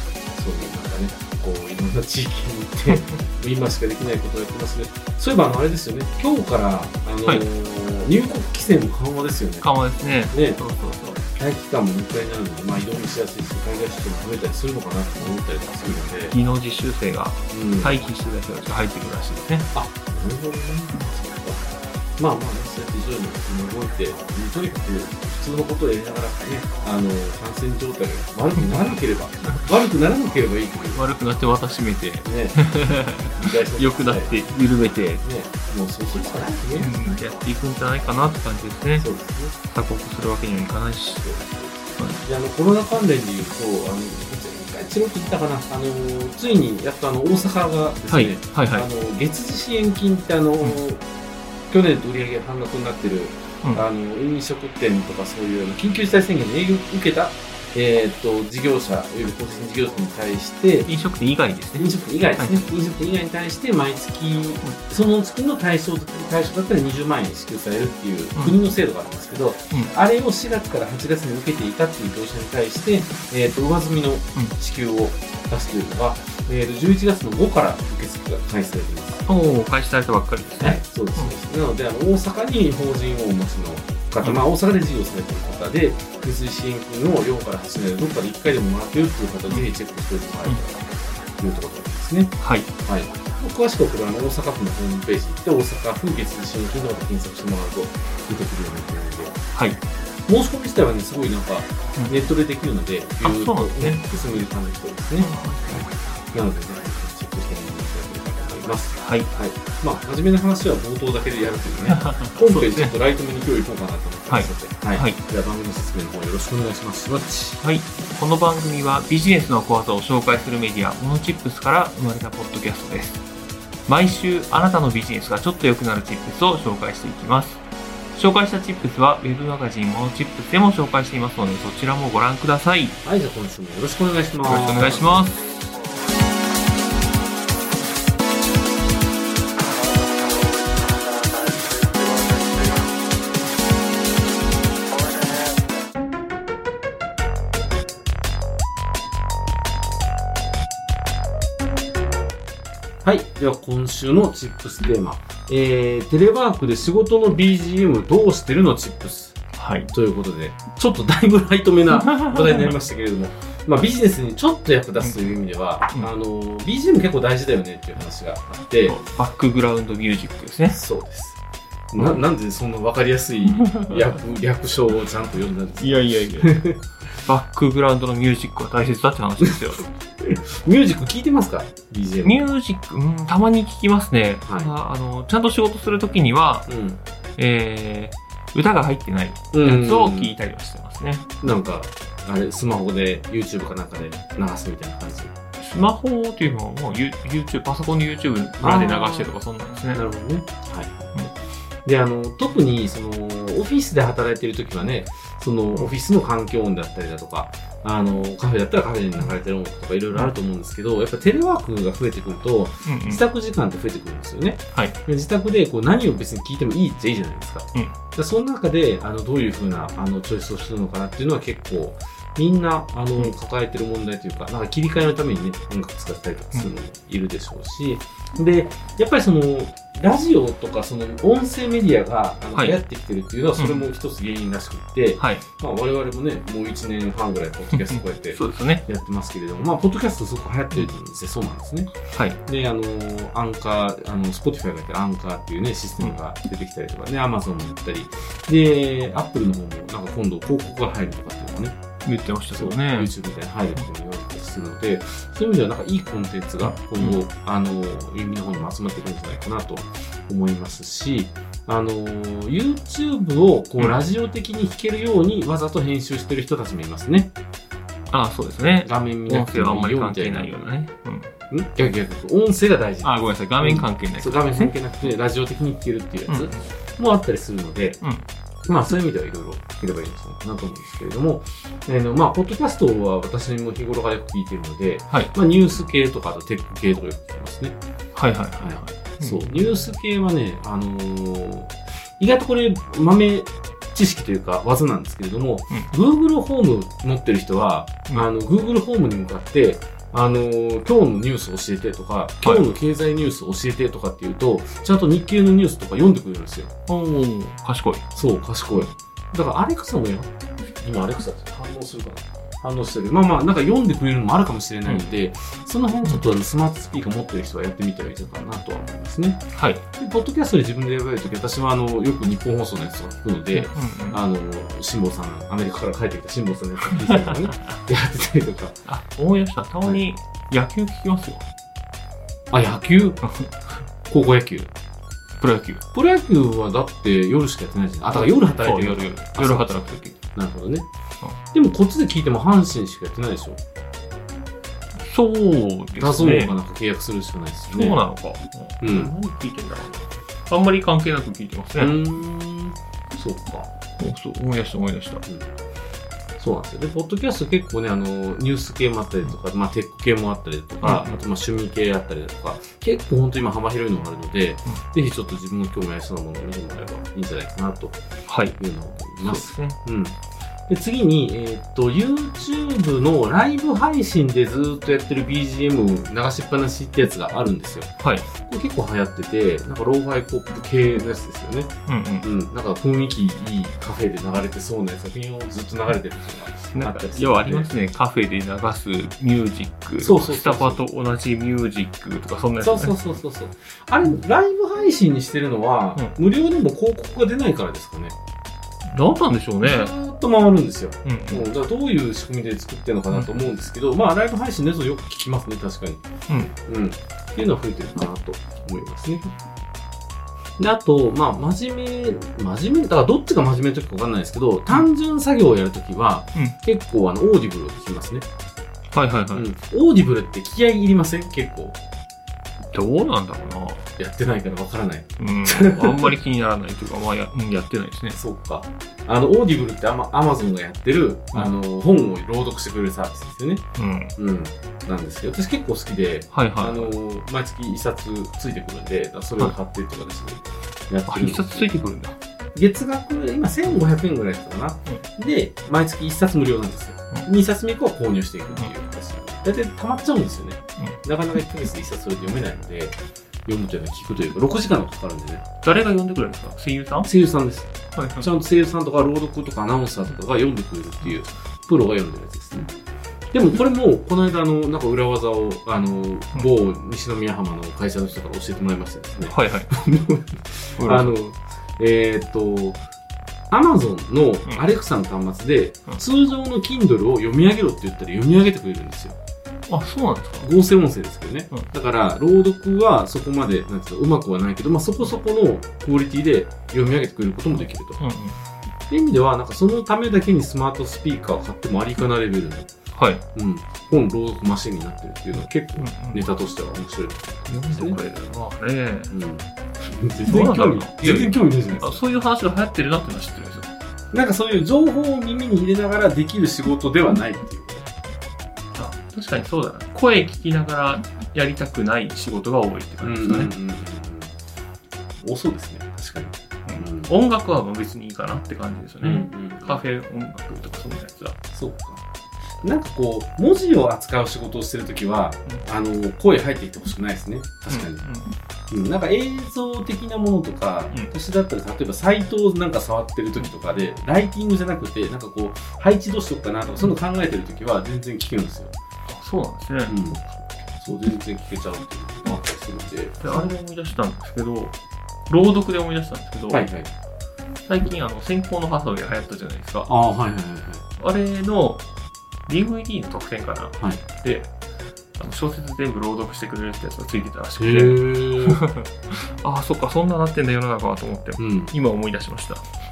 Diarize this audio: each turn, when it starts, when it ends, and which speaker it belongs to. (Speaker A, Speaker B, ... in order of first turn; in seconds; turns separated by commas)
Speaker A: 0.3-9.7, Speaker B: 9.6-11.2, Speaker A: 10.3-10.6, Speaker A: 11.3-16.4, Speaker B: 16.3-19.7, Speaker A: 17.5-18.0, Speaker A: 19.7-31.0, Speaker B: 30.9-35.2, Speaker A: 32.2-32.6, Speaker A: 33.4-34.5, Speaker A: 35.0-37.2, Speaker B: 36.8-39.1, Speaker A: 39.0-39.5, Speaker B: 39.7-41.3, Speaker A: 41.2-51.0, Speaker B: 42.0-42.2, Speaker B: 48.1-48.9, Speaker A: 51.7-60.9, Speaker B: 60.9-62.7, Speaker A: 61.8-79.3, Speaker B: 79.3-81.3, Speaker A: 80.6-99.4, Speaker B: 92.4-92.7, Speaker B: 99.5-99.8, Speaker A: 100.3-117.6, Speaker B: 102.0-102.3, Speaker B: 103.2-104.1, Speaker B: 105.2-105.8, Speaker B: 109.0-109.3, Speaker B: 111.9-112.9, Speaker B: 114.3-115.2, Speaker B: 117.6-123.2, Speaker B: 123.9-133.0, Speaker A: 133.0-135.3, Speaker B: 134.5-135.7, Speaker A: 153.0-159.4, Speaker B: 159.6-159.9, Speaker A: 159.9-169.0, Speaker B: 161.9-162.7, Speaker B: 165.0-166.1, Speaker B: 168.9-170.8, Speaker A: 170.7-171.4, Speaker A: 171.9-176.8, Speaker B: 172.0-172.2, Speaker B: 173.6-174.1, Speaker B: 175.8-176.6, Speaker B: 177.2-179.9, Speaker A: 180.2-182.5, Speaker B: 182.2-186.7, Speaker A: 184.4-184.7, Speaker A: 186.7-187.0, Speaker B: 187.4-191.4, Speaker A: 189.5-190.3, Speaker A: 191.4-195.3, Speaker B: 195.6-200.0, Speaker A: 198.6-199.3, Speaker A: 199.9-201.1, Speaker A: 201.8-251.8, Speaker B: 212.8-213.2, Speaker B: 233.6-233.9, Speaker B: 235.2-235.4, Speaker B: 237.7-238.8, Speaker B: 242.1-242.4, Speaker B: 252.1-253.1, Speaker A: 252.5-267.3, Speaker B: 256.6-257.2, Speaker B: 268.1-271.3, Speaker A: 268.7-270.6, Speaker A: 271.5-278.0, Speaker B: 273.0-274.9, Speaker B: 276.3-276.6, Speaker A: 278.6-287.8, Speaker B: 288.1-289.8, Speaker A: 288.6-306.7, Speaker B: 306.9-308.0, Speaker A: 308.1-319.4, Speaker B: 319.5-319.8, Speaker A: 320.0-328.8, Speaker B: 323.5-324.2, Speaker B: 328.9-331.5, Speaker A: 332.5-333.2, Speaker A: 334.1-334.7, Speaker B: 335.4-335.8, Speaker A: 335.9-340.9, Speaker B: 338.1-340.2, Speaker A: 341.5-343.6, Speaker B: 345.0-346.6, Speaker A: 345.9-348.0, Speaker B: 347.7-351.9, Speaker A: 348.8-349.1, Speaker A: 351.8-353.7, Speaker B: 354.0-355.2, Speaker A: 355.3-355.5, Speaker A: 356.4-368.0, Speaker B: 360.8-361.2, Speaker B: 368.3-368.6, Speaker A: 368.6-381.7, Speaker B: 369.2-369.8, Speaker B: 378.0-378.3, Speaker B: 381.9-382.3, Speaker A: 382.2-387.7, Speaker B: 386.7-392.9, Speaker A: 390.0-390.8, Speaker A: 392.6-398.1, Speaker B: 398.9-399.9, Speaker A: 399.6-406.0, Speaker B: 401.1-401.4, Speaker B: 403.1-403.5, Speaker B: 406.3-406.5, Speaker A: 406.6-409.3, Speaker A: 410.6-418.2, Speaker B: 418.9-419.5, Speaker A: 419.3-421.8, Speaker B: 422.7-423.9, Speaker A: 424.0-426.2, Speaker B: 425.2-428.2, Speaker A: 428.1-433.6, Speaker B: 433.8-434.1, Speaker A: 434.2-441.7, Speaker B: 436.3-436.9, Speaker B: 441.1-442.2, Speaker A: 442.6-455.5, Speaker B: 455.6-457.1, Speaker A: 457.0-462.7, Speaker B: 457.9-458.3, Speaker A: 463.3-472.8, Speaker B: 469.2-469.7, Speaker B: 470.8-471.1, Speaker A: 473.5-479.1, Speaker B: 479.7-480.5, Speaker A: 480.4-488.1, Speaker B: 488.0-488.4, Speaker A: 488.9-492.7, Speaker B: 492.9-493.2, Speaker A: 493.4-498.0, Speaker B: 495.8-496.3, Speaker B: 497.5-499.2, Speaker A: 499.1-502.0, Speaker B: 500.3-503.7, Speaker A: 504.1-507.9, Speaker B: 508.8-513.5, Speaker A: 513.0-514.3, Speaker A: 515.2-517.1, Speaker B: 516.7-521.4, Speaker A: 519.0-519.9, Speaker A: 521.5-522.0, Speaker A: 522.6-528.1, Speaker B: 527.7-528.4, Speaker A: 528.7-538.7, Speaker B: 539.1-540.4, Speaker A: 539.9-540.2, Speaker A: 540.8-543.5, Speaker B: 543.2-544.8, Speaker B: 545.3-546.7, Speaker A: 546.5-546.9, Speaker B: 547.7-549.9, Speaker A: 549.9-550.8, Speaker B: 551.0-551.8, Speaker B: 552.5-554.5, Speaker B: 555.2-562.7, Speaker A: 557.6-558.6, Speaker A: 561.4-561.7